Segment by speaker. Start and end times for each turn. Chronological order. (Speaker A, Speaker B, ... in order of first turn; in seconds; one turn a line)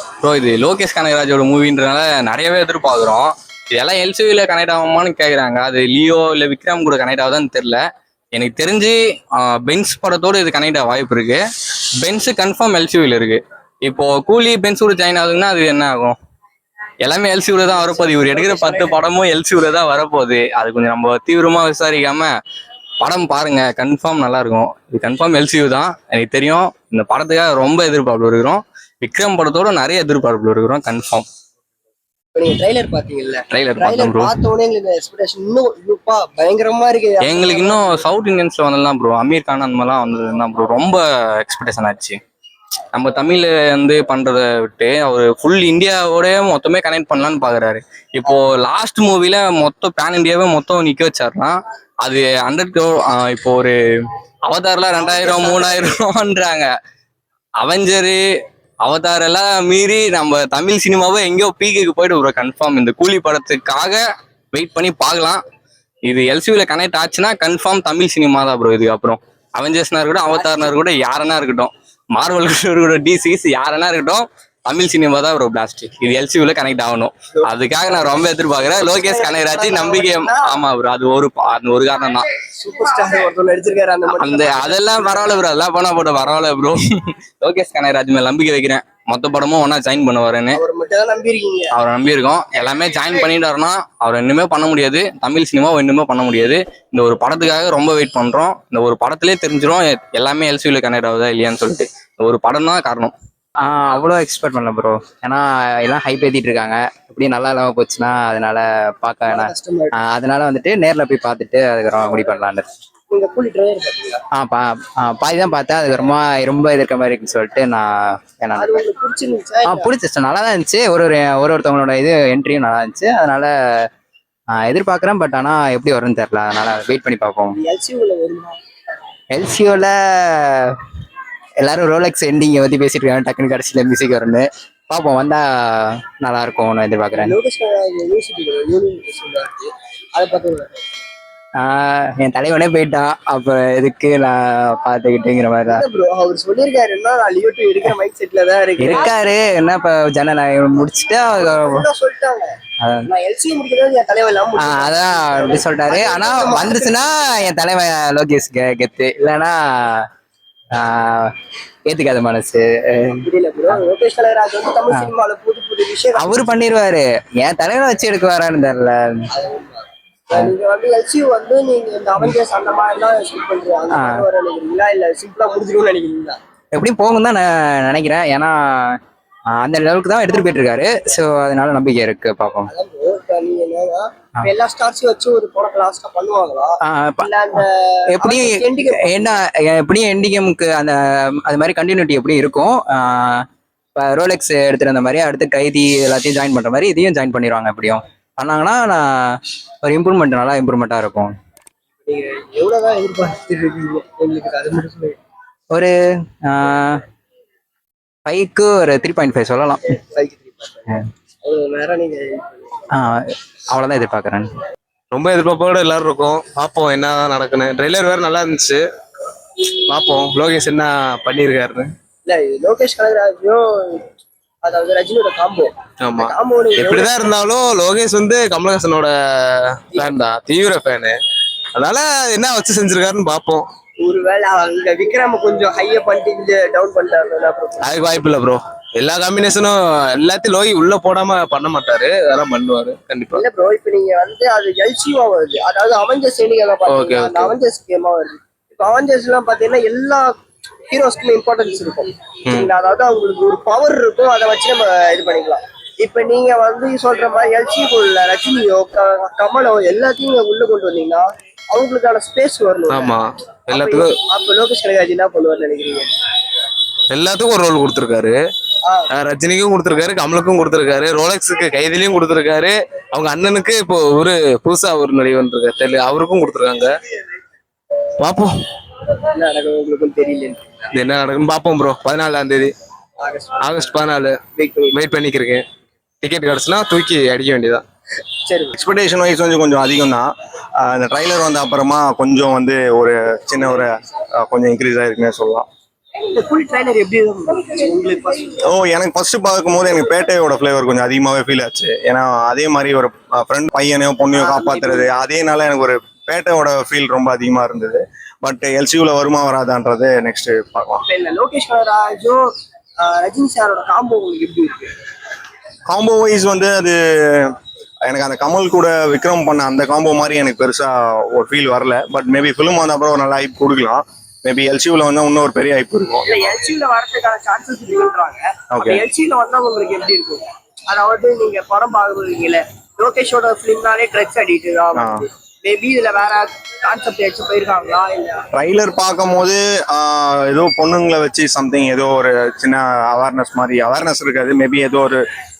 Speaker A: 0.2-7.8
Speaker A: 8.3-11.4
Speaker A: 12.0-16.1
Speaker A: 17.0-22.3
Speaker B: 17.7-19.0
Speaker A: 23.0-31.2
Speaker B: 32.3-38.1
Speaker A: 33.5-34.4
Speaker A: 37.2-42.2
Speaker A: 42.9-53.8
Speaker A: 54.5-56.7
Speaker B: 55.0-55.9
Speaker A: 57.6-58.2
Speaker A: 58.8-64.0
Speaker A: 64.5-65.4
Speaker A: 66.1-82.3
Speaker B: 70.3-70.7
Speaker B: 77.4-80.5
Speaker B: 82.5-85.3
Speaker A: 84.1-86.8
Speaker A: 87.4-90.6
Speaker B: 90.5-91.7
Speaker A: 91.7-103.1
Speaker C: 103.6-112.7
Speaker B: 109.3-109.9
Speaker B: 113.1-114.2
Speaker C: 114.3-118.8
Speaker B: 118.5-119.9
Speaker C: 119.6-123.5
Speaker C: 124.6-127.5
Speaker B: 127.5-128.6
Speaker C: 129.3-130.8
Speaker C: 131.6-137.4
Speaker B: 137.1-140.8
Speaker C: 141.6-145.8
Speaker B: 145.7-149.2
Speaker C: 148.8-151.8
Speaker B: 151.3-152.5
Speaker C: 152.8-153.1
Speaker B: 153.1-157.2
Speaker C: 154.6-160.1
Speaker C: 160.8-161.3
Speaker C: 161.9-163.2
Speaker B: 163.2-166.4
Speaker C: 166.2-169.2
Speaker B: 169.3-176.4
Speaker C: 173.9-174.2
Speaker C: 176.7-179.0
Speaker C: 179.6-182.7
Speaker B: 182.7-189.3
Speaker C: 186.8-187.3
Speaker C: 188.1-193.4
Speaker C: 193.9-201.3
Speaker B: 202.1-205.2
Speaker C: 206.4-207.0
Speaker C: 208.2-209.8
Speaker B: 209.9-210.9
Speaker B: 211.4-212.9
Speaker C: 212.9-214.5
Speaker D: 215.1-218.8
Speaker D: 219.6-221.9
Speaker B: 222.2-224.1
Speaker B: 224.6-227.1
Speaker D: 226.0-231.2
Speaker D: 231.7-233.7
Speaker B: 234.0-237.9
Speaker D: 237.8-243.4
Speaker B: 243.3-250.3
Speaker D: 246.8-247.6
Speaker B: 250.9-263.1
Speaker D: 262.9-264.1
Speaker B: 263.7-266.1
Speaker D: 267.1-268.4
Speaker D: 269.1-276.9
Speaker D: 278.2-278.6
Speaker B: 279.3-280.9
Speaker D: 280.9-282.7
Speaker B: 283.2-283.9
Speaker D: 283.6-284.4
Speaker B: 284.5-285.0
Speaker D: 284.9-285.6
Speaker D: 286.2-287.8
Speaker B: 288.4-288.7
Speaker E: 288.7-290.3
Speaker E: 290.8-295.6
Speaker B: 296.2-298.6
Speaker E: 298.7-311.0
Speaker B: 304.3-305.1
Speaker B: 311.0-312.4
Speaker B: 313.0-314.9
Speaker E: 315.9-317.5
Speaker E: 318.1-326.3
Speaker B: 326.2-338.4
Speaker E: 328.7-329.0
Speaker E: 334.9-335.2
Speaker E: 338.5-345.2